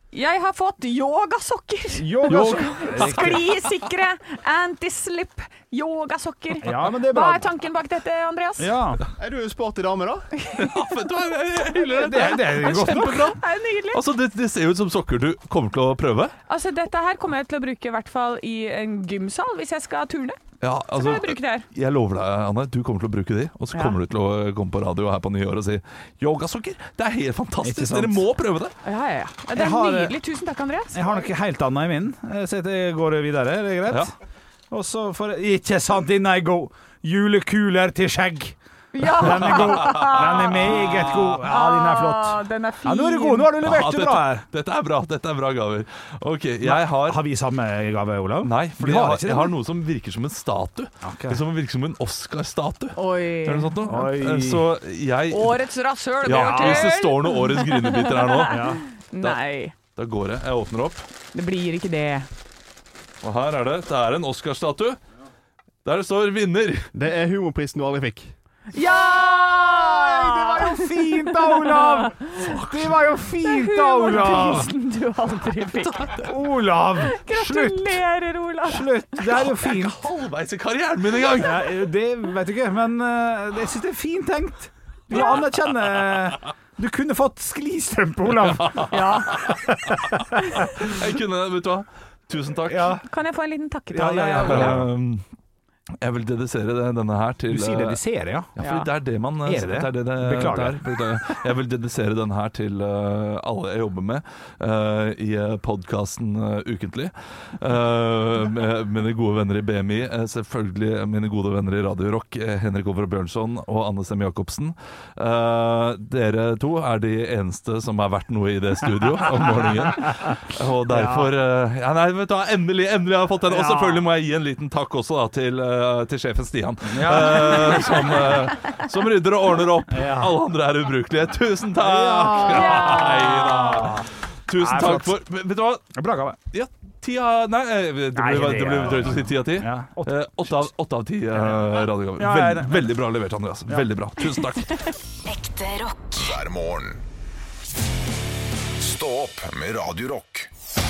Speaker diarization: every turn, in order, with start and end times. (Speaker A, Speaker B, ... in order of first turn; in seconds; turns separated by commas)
Speaker A: 0.1-8.7, Speaker B: 1.9-3.5, Speaker C: 2.3-3.4, Speaker B: 6.6-7.5, Speaker B: 8.6-9.0, Speaker D: 9.2-10.3, Speaker A: 10.4-10.9, Speaker C: 10.5-13.4, Speaker A: 11.7-14.0, Speaker B: 11.9-13.4, Speaker C: 13.9-16.3, Speaker A: 16.5-20.4, Speaker C: 20.6-28.7, Speaker A: 20.9-21.7, Speaker B: 27.6-28.2, Speaker A: 28.8-31.2, Speaker B: 29.5-30.2, Speaker B: 30.9-34.1, Speaker B: 34.7-44.4, Speaker A: 38.9-43.5, Speaker C: 39.4-41.4, Speaker C: 43.6-47.2, Speaker B: 46.6-49.5, Speaker C: 48.4-55.6, Speaker B: 51.0-51.4, Speaker A: 52.9-53.8, Speaker B: 53.8-54.6, Speaker A: 55.3-59.7, Speaker C: 56.2-61.1, Speaker B: 56.3-56.9, Speaker B: 58.5-58.8, Speaker A: 61.3-62.3, Speaker C: 63.2-65.0, Speaker C: 65.8-66.9, Speaker D: 66.9-68.3, Speaker A: 68.7-72.4, Speaker B: 69.1-74.7, Speaker C: 72.4-73.0, Speaker A: 73.4-76.3, Speaker B: 76.2-78.0, Speaker A: 77.0-79.5, Speaker B: 78.7-80.0, Speaker C: 79.4-81.7, Speaker B: 81.3-89.5, Speaker A: 85.1-85.4, Speaker C: 88.5-92.9, Speaker A: 88.9-89.5, Speaker A: 90.3-90.7, Speaker B: 92.7-93.0, Speaker A: 93.0-94.8, Speaker B: 93.9-94.9, Speaker C: 94.4-95.2, Speaker C: 96.0-98.0, Speaker B: 97.5-98.5, Speaker C: 98.5-135.9, Speaker A: 98.6-98.9, Speaker B: 99.4-101.0, Speaker B: 120.9-121.3, Speaker B: 123.5-124.0, Speaker B: 126.9-128.3, Speaker B: 129.9-130.3, Speaker B: 131.8-134.0, Speaker A: 132.3-133.9, Speaker B: 134.6-135.1, Speaker B: 135.9-136.4, Speaker C: 136.5-144.9, Speaker B: 138.1-140.6, Speaker B: 142.2-142.9, Speaker E: 145.6-147.0, Speaker E: 148.7-150.5